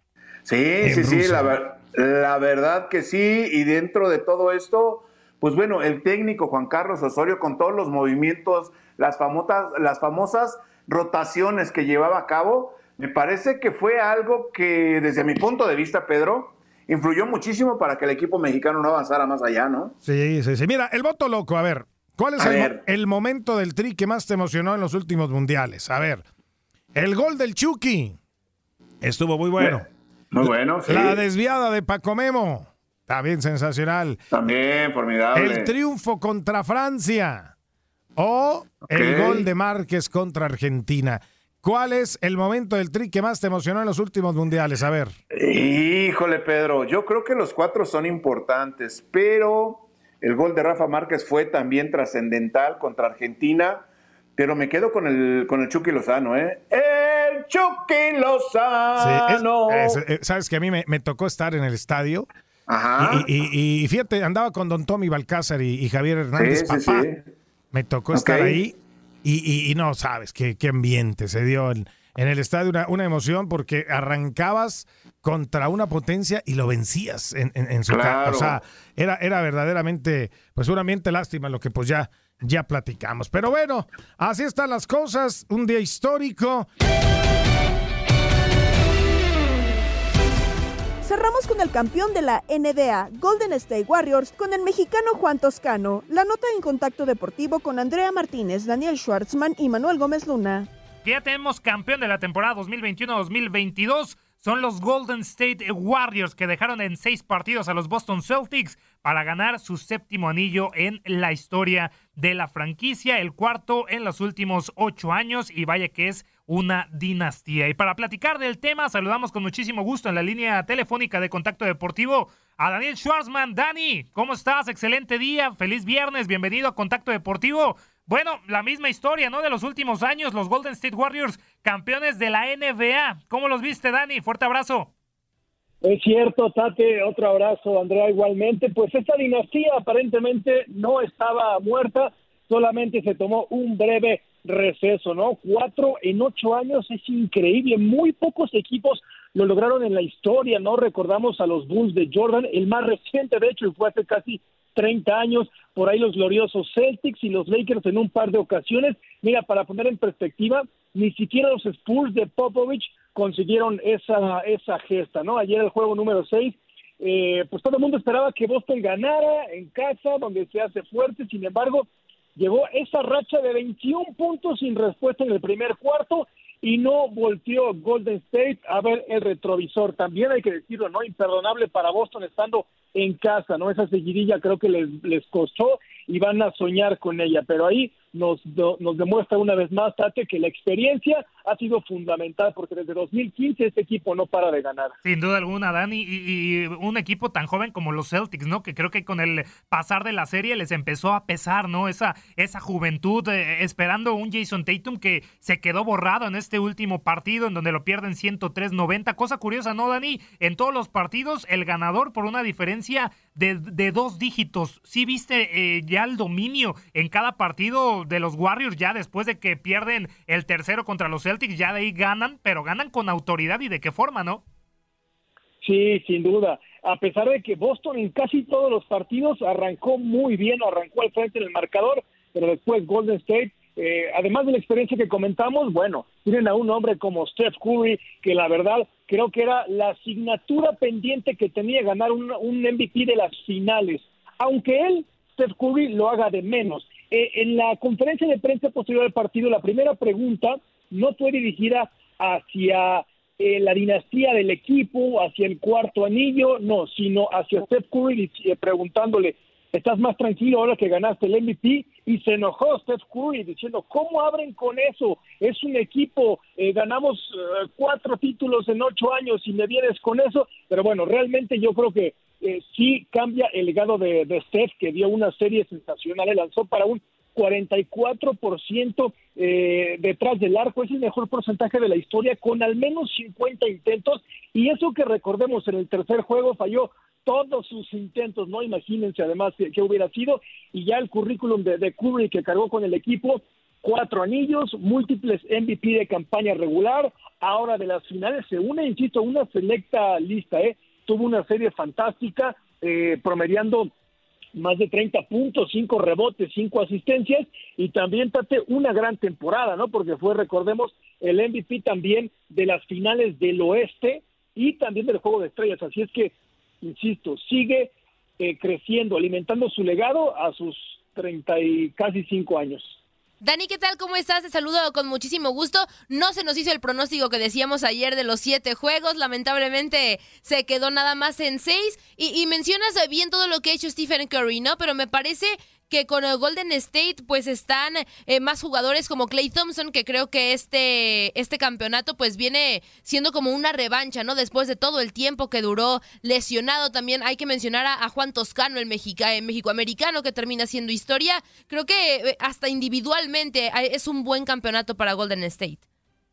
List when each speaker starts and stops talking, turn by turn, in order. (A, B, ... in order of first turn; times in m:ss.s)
0:00.5-0:20.0 A
0:00.8-0:01.6 B
0:20.0-0:26.2 B
0:22.4-0:22.8 A
0:27.0-0:28.2 B
0:29.0-0:29.9 B
0:30.3-0:31.2 A
0:30.4-0:34.2 B
0:34.3-0:35.7 A
0:35.4-0:37.5 B
0:38.2-0:45.1 B
0:38.8-0:39.5 A
0:45.3-1:00.0 A
0:59.0-1:02.3 B
1:02.7-1:03.3 A
1:03.0-1:07.1 B
1:06.4-1:07.3 A
1:07.7-1:26.7 B
1:08.1-1:08.6 A
1:17.9-1:18.6 A
1:31.0-1:40.7 C
1:41.0-2:14.9 D
2:15.8-3:14.9 E
3:15.0-3:44.4 D
3:45.6-5:03.9 E
5:04.6-5:23.0 E
5:23.4-5:55.8 F